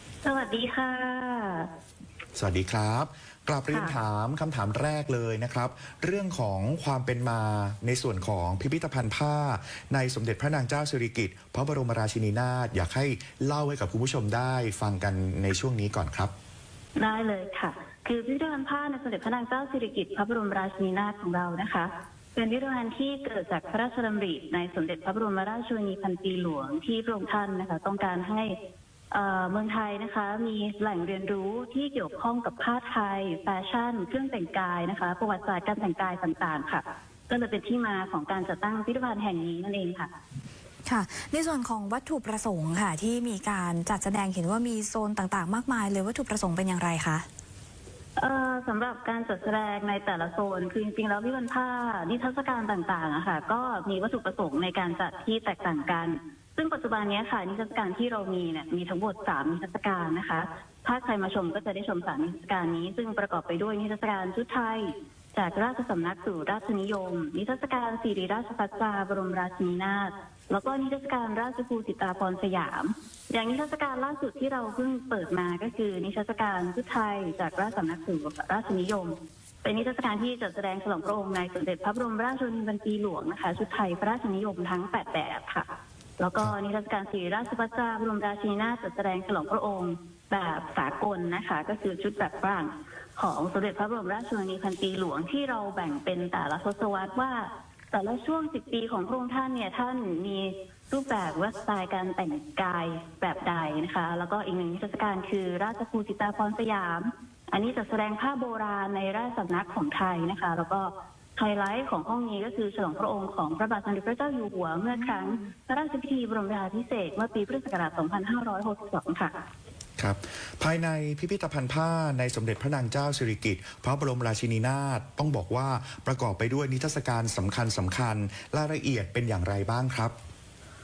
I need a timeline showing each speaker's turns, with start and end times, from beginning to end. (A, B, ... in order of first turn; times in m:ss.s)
0:00.2-0:01.7 A
0:02.4-0:16.3 B
0:17.0-0:28.6 A
0:29.1-0:40.1 A
0:40.9-0:47.3 C
0:48.2-1:25.7 A
1:26.2-1:59.3 A
1:54.9-1:55.5 C
2:00.0-2:10.1 B